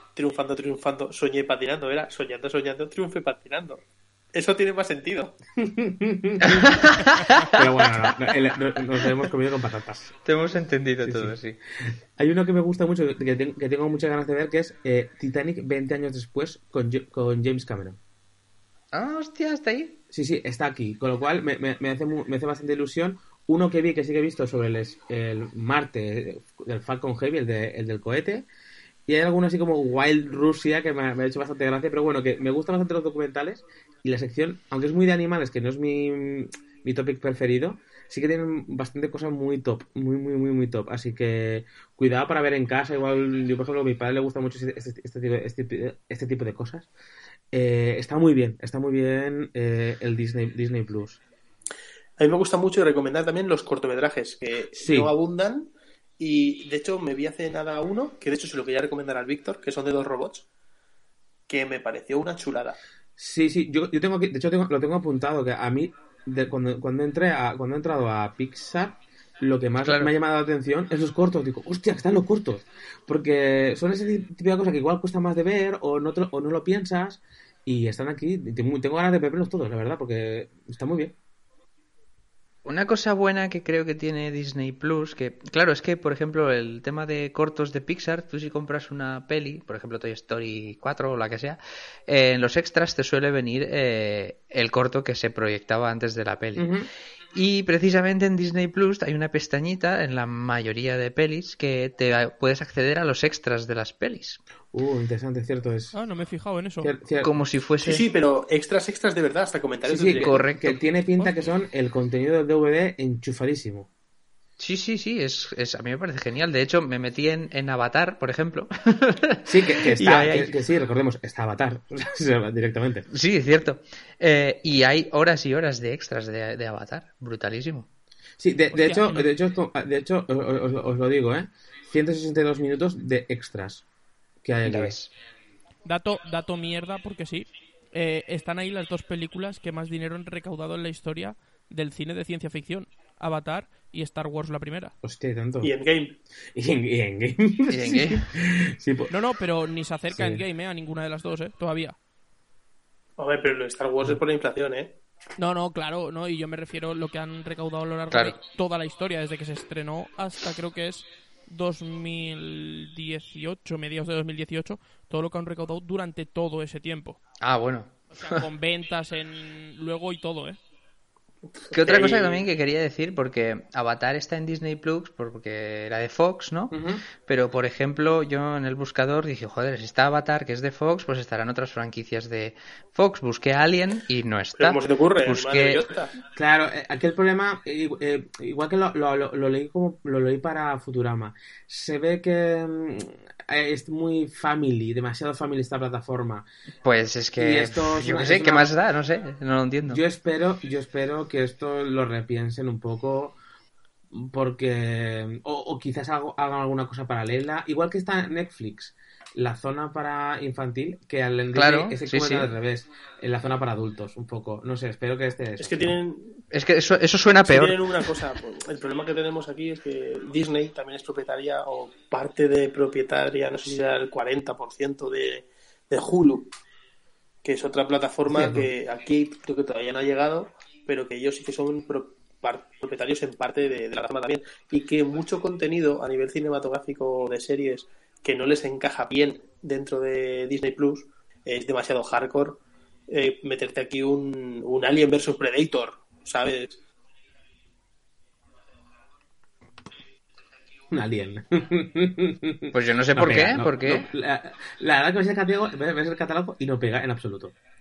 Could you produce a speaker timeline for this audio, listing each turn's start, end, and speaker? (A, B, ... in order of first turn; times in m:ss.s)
0:00.1-0:05.4 A
0:05.6-0:06.8 B
0:06.4-0:08.0 C
0:07.5-0:10.1 B
0:10.2-0:11.6 C
0:11.0-0:11.3 B
0:11.9-0:18.0 B
0:18.9-0:20.0 C
0:20.1-0:28.4 B
0:29.1-0:46.9 B
0:47.5-0:51.2 B
0:52.2-1:00.4 A
0:54.7-0:55.1 B
1:01.5-1:02.8 A
1:03.2-1:21.1 B
1:09.8-1:10.1 C
1:22.6-1:36.7 C
1:36.6-1:36.9 B
1:37.3-1:44.4 C
1:44.7-1:46.0 B
1:45.9-1:46.9 D
1:46.8-1:47.3 B
1:47.2-1:48.0 C
1:47.8-1:50.4 A
1:49.8-1:53.9 B
1:50.2-1:50.8 C
1:54.6-2:00.5 C
1:59.4-2:03.1 B
2:03.1-2:07.9 C
2:08.4-2:13.8 B
2:08.7-2:09.3 D
2:14.4-2:15.0 B
2:14.6-2:15.1 C
2:15.8-2:24.9 D
2:25.0-2:25.7 B
2:25.6-2:26.2 A
2:26.5-2:29.1 B
2:27.7-2:28.2 C
2:29.1-2:32.0 D
2:30.1-2:30.4 B
2:33.2-2:35.0 A
2:35.4-2:47.2 D
2:38.1-2:38.4 C
2:47.4-2:48.4 C
2:48.1-2:50.6 D
2:51.6-2:52.5 A
2:51.7-3:05.8 C
2:56.7-2:57.0 B
3:04.6-3:06.1 A
3:06.3-3:16.4 B
3:16.8-3:20.0 C
3:17.4-3:18.7 B
3:19.9-3:23.4 B
3:24.1-3:35.9 B
3:31.5-3:32.5 C
3:35.6-3:36.4 A
3:36.5-3:38.2 C
3:37.4-3:46.5 A
3:47.4-4:06.8 A
3:48.3-3:48.7 B
4:10.9-4:17.5 B
4:12.7-4:14.1 C